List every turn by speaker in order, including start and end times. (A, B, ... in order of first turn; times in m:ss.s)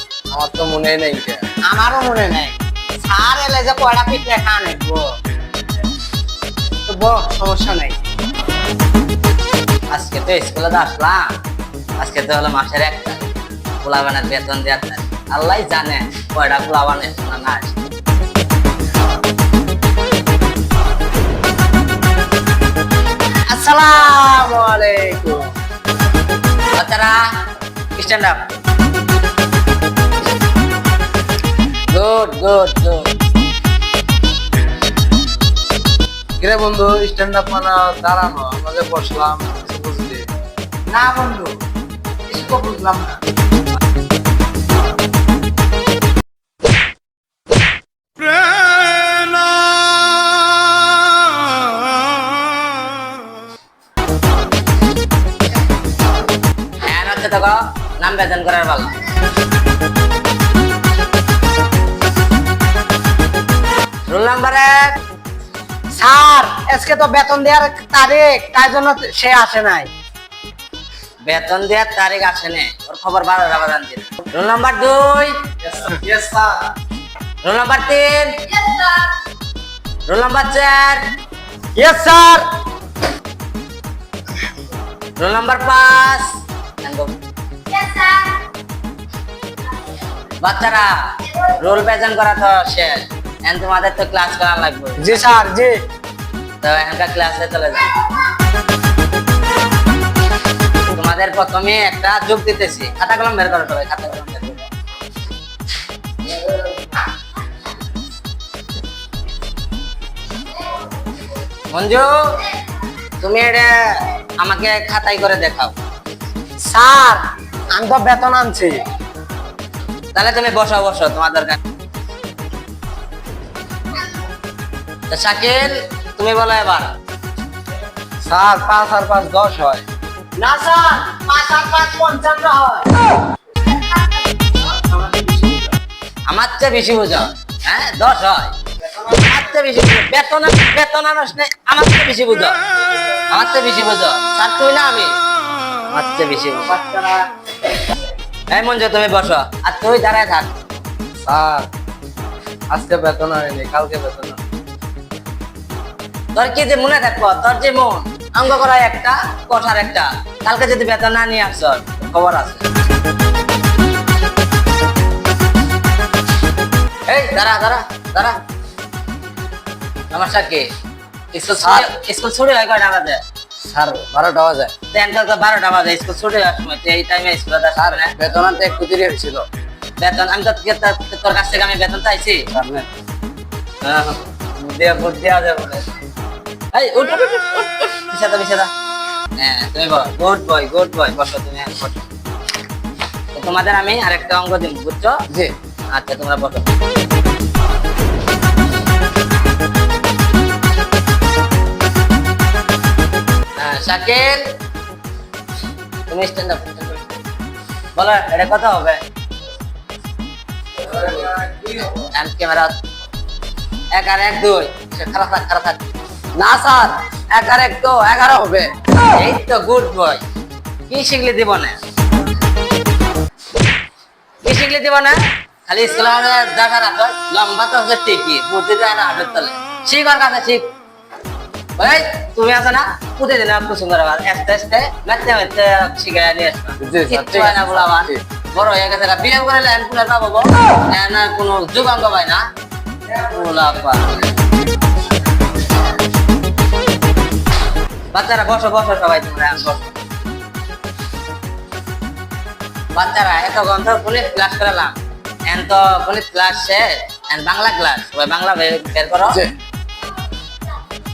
0:00.3-0:01.4 A
0:01.7-0:05.0 B
0:06.9-0:08.0 B
0:09.9-0:11.3 C
0:12.0-0:13.3 C
0:13.8-0:17.9 C
0:23.5-0:25.4 B
0:26.8-0:27.2 C
0:28.0-0:28.4 C
0:31.9-0:33.1 C
0:36.4-0:40.2 A
0:40.9-0:41.5 B
0:42.3-0:43.2 B
0:56.8-0:58.9 C
1:04.1-1:05.0 C
1:05.9-1:09.9 B
1:11.2-1:15.3 C
1:15.7-1:16.5 A
1:17.4-1:19.0 C
1:20.1-1:21.0 C
1:21.8-1:22.4 B
1:25.2-1:26.2 C
1:26.8-1:27.1 C
1:27.8-1:28.2 C
1:30.4-1:35.2 C
1:35.0-1:35.8 B
1:36.6-1:37.9 C
1:40.9-1:44.7 C
1:51.7-1:52.2 C
1:53.2-1:55.8 C
1:56.7-1:57.2 B
1:57.8-1:58.8 B
2:00.2-2:01.6 C
2:05.1-2:06.9 C
2:08.2-2:09.8 A
2:10.4-2:12.9 B
2:16.3-2:22.6 C
2:23.3-2:25.1 C
2:25.9-2:27.1 C
2:28.5-2:30.5 C
2:31.3-2:31.7 A
2:32.7-2:34.4 A
2:36.4-2:42.6 C
2:47.1-2:48.4 C
2:50.1-2:50.7 C
2:51.3-2:53.2 C
2:51.6-2:51.9 A
2:53.7-2:54.7 A
2:54.9-2:58.2 C
2:57.8-2:59.5 A
3:00.0-3:02.4 C
3:02.5-3:02.9 A
3:03.8-3:05.8 C
3:06.7-3:08.7 C
3:09.4-3:12.0 C
3:13.4-3:15.2 C
3:15.9-3:16.6 C
3:23.6-3:24.4 C
3:26.1-3:27.0 C
3:28.0-3:29.0 C
3:30.9-3:31.9 A
3:32.1-3:32.7 C
3:33.9-3:35.8 C
3:36.4-3:38.7 A
3:39.1-3:40.2 C
3:40.9-3:41.8 C
3:44.4-3:50.7 C
3:51.8-4:02.4 C
3:56.8-3:58.2 A
4:03.1-4:04.2 C
4:08.1-4:10.0 C
4:13.0-4:15.0 C
4:15.5-4:19.4 C